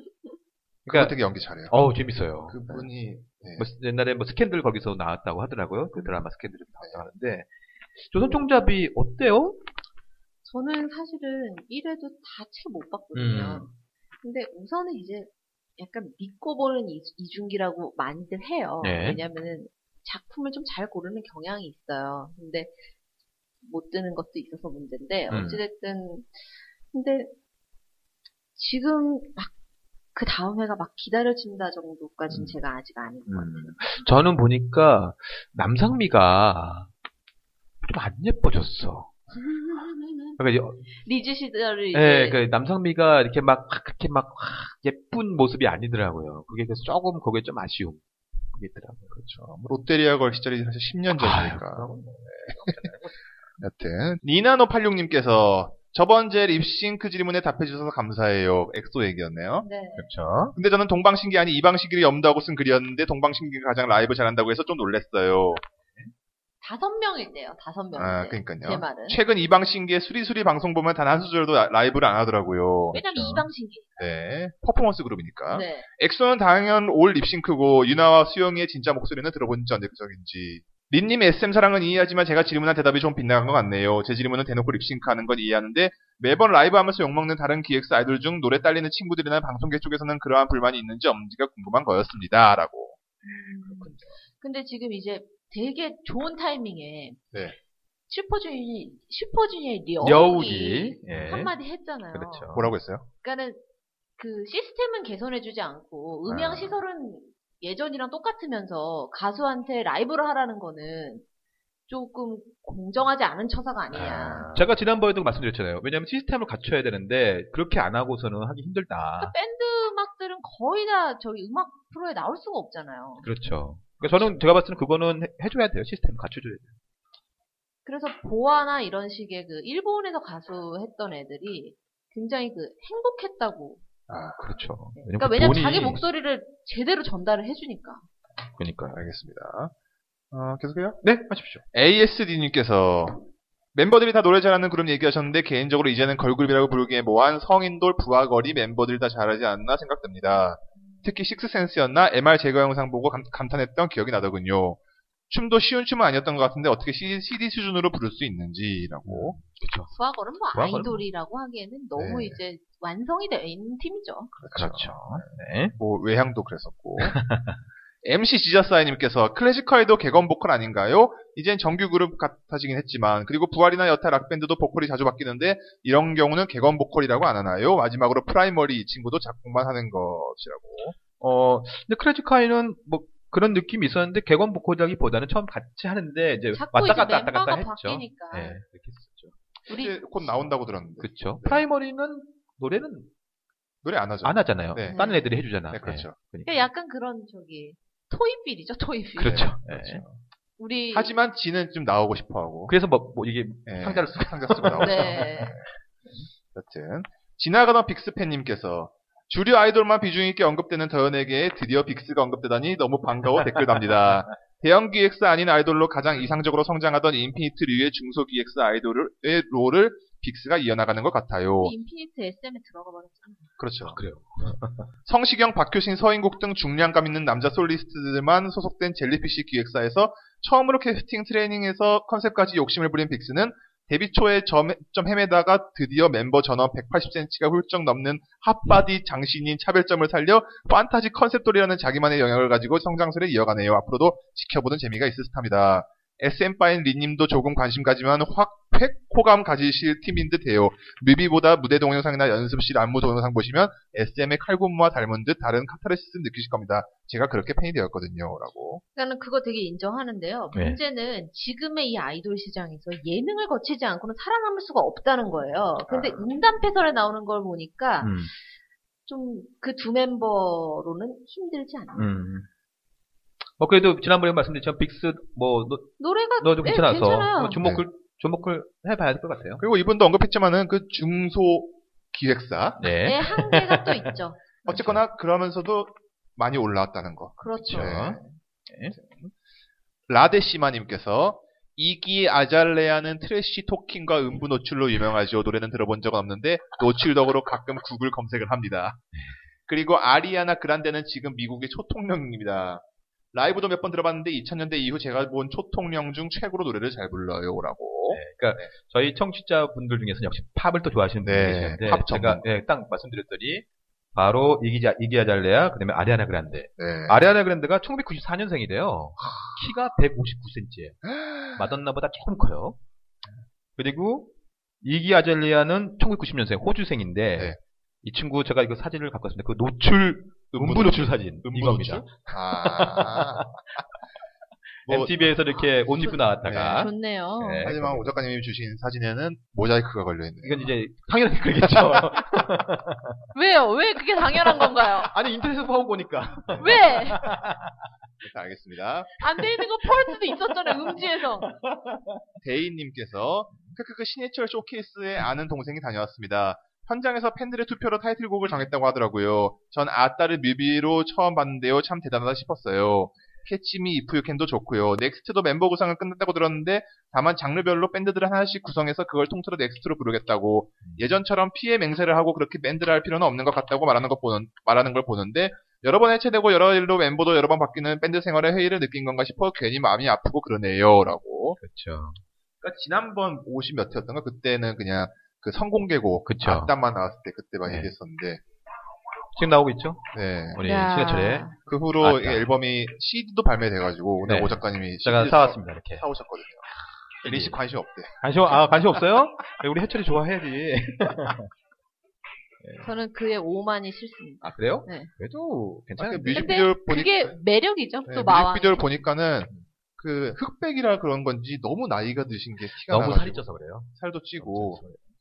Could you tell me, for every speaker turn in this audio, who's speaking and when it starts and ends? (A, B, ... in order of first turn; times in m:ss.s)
0:00.9-0:01.2 A
0:00.9-0:01.7 B
0:01.7-0:02.8 A
0:02.5-0:03.7 B
0:03.6-0:09.6 A
0:10.4-0:13.7 C
0:13.1-0:13.7 A
0:14.2-0:22.8 C
0:18.8-0:19.2 A
0:23.6-0:27.3 C
0:25.3-0:25.6 A
0:28.6-0:29.5 C
0:30.2-0:33.8 C
0:32.3-0:32.6 A
0:33.3-0:36.9 A
0:37.8-0:39.1 A
0:39.3-0:40.4 C
0:40.4-0:40.8 A
0:40.9-0:42.4 C
0:41.9-0:48.0 A
0:48.5-0:49.2 A
0:49.2-0:51.9 B
0:51.2-0:53.2 A
0:53.6-0:59.7 B
0:59.6-1:00.1 C
1:00.0-1:00.6 A
1:00.5-1:05.6 B
1:06.6-1:09.2 C
1:08.0-1:13.3 B
1:12.9-1:14.0 C
1:13.1-1:13.4 A
1:14.0-1:33.0 B
1:15.5-1:15.9 C
1:33.2-1:37.2 C
1:33.7-1:34.1 A
1:38.1-1:42.5 C
1:40.0-1:41.5 A
1:42.1-1:42.8 A
1:42.5-1:43.1 B
1:43.2-1:43.6 C
1:44.2-1:51.2 C
1:46.3-1:46.8 B
1:51.9-1:54.5 C
1:53.9-1:54.7 B
1:54.5-1:59.4 A
1:59.2-2:03.3 C
2:03.2-2:06.7 A
2:07.8-2:13.8 C
2:14.1-2:14.4 B
2:14.4-2:16.0 A
2:15.0-2:18.1 C
2:18.6-2:19.0 A
2:19.0-2:19.7 B
2:20.3-2:21.0 B
2:21.0-2:21.6 A
2:21.7-2:34.8 B
2:35.3-2:39.4 B
2:39.1-2:39.9 A
2:39.9-2:44.3 C
2:40.5-2:41.0 A
2:42.0-2:42.4 B
2:44.4-2:47.2 B
2:44.6-2:45.7 A
2:47.0-2:47.6 A
2:48.0-3:01.0 B
3:01.2-3:09.4 A
3:06.5-3:08.6 C
3:09.7-3:10.3 C
3:09.7-3:11.6 B
3:11.0-3:13.1 A
3:13.8-3:15.0 B
3:14.2-3:16.7 A
3:14.9-3:15.3 C
3:15.7-3:16.2 B
3:16.4-3:19.5 C
3:19.2-3:20.0 A
3:19.2-3:20.2 B
3:20.6-3:21.2 C
3:20.9-3:22.7 B
3:22.7-3:25.3 A
3:23.7-3:25.7 B
3:24.8-3:25.6 C
3:26.5-3:41.8 B
3:41.6-3:43.5 C
3:43.6-3:44.0 B
3:43.8-3:44.9 A
3:45.1-4:18.8 B
4:19.0-4:28.3 C
4:20.5-4:20.8 A
4:25.9-4:26.3 B
4:28.0-4:28.3 A
4:29.1-4:32.1 C
4:32.0-4:32.5 A
4:33.6-4:39.6 A
4:36.0-4:37.6 C
4:39.6-4:42.9 B
4:42.8-4:43.9 A
4:43.0-4:44.4 C
4:44.7-4:48.3 B
4:44.7-4:45.0 A
4:47.4-4:47.9 C
4:47.6-4:49.0 A
4:49.0-4:49.3 B
4:50.1-4:59.0 B
4:59.7-5:08.7 B
5:08.1-5:21.0 A
5:11.2-5:12.4 B
5:16.8-5:17.2 B
5:21.1-5:21.6 B
5:21.6-5:22.8 A
5:23.8-5:24.3 A
5:24.8-5:33.6 A
5:30.5-5:33.6 B
5:34.8-5:38.1 A
5:34.9-5:35.1 B
5:35.6-5:37.7 C
5:36.4-5:36.9 B
5:37.6-5:40.7 B
5:40.4-5:43.2 A
5:43.4-5:45.1 C
5:44.4-5:47.8 A
5:46.5-5:46.8 B
5:46.6-5:47.3 C
5:48.2-5:49.1 B
5:49.2-5:51.5 C
5:51.4-5:52.1 A
5:52.4-6:21.6 B
6:21.6-6:22.2 A
6:22.6-6:28.4 B
6:26.3-6:26.7 A
6:27.7-6:27.9 A
6:29.4-6:32.5 A
6:30.1-6:30.6 B
6:30.6-6:31.6 C
6:31.6-6:36.7 B
6:34.2-6:36.1 A
6:37.2-6:37.6 A
6:37.2-6:38.6 B
6:38.2-6:41.5 A
6:42.6-6:42.9 A
6:42.8-6:45.1 C
6:44.4-6:46.6 A
6:46.0-6:47.4 B
6:46.3-6:48.8 C
6:48.1-6:54.8 B
6:52.9-6:55.0 A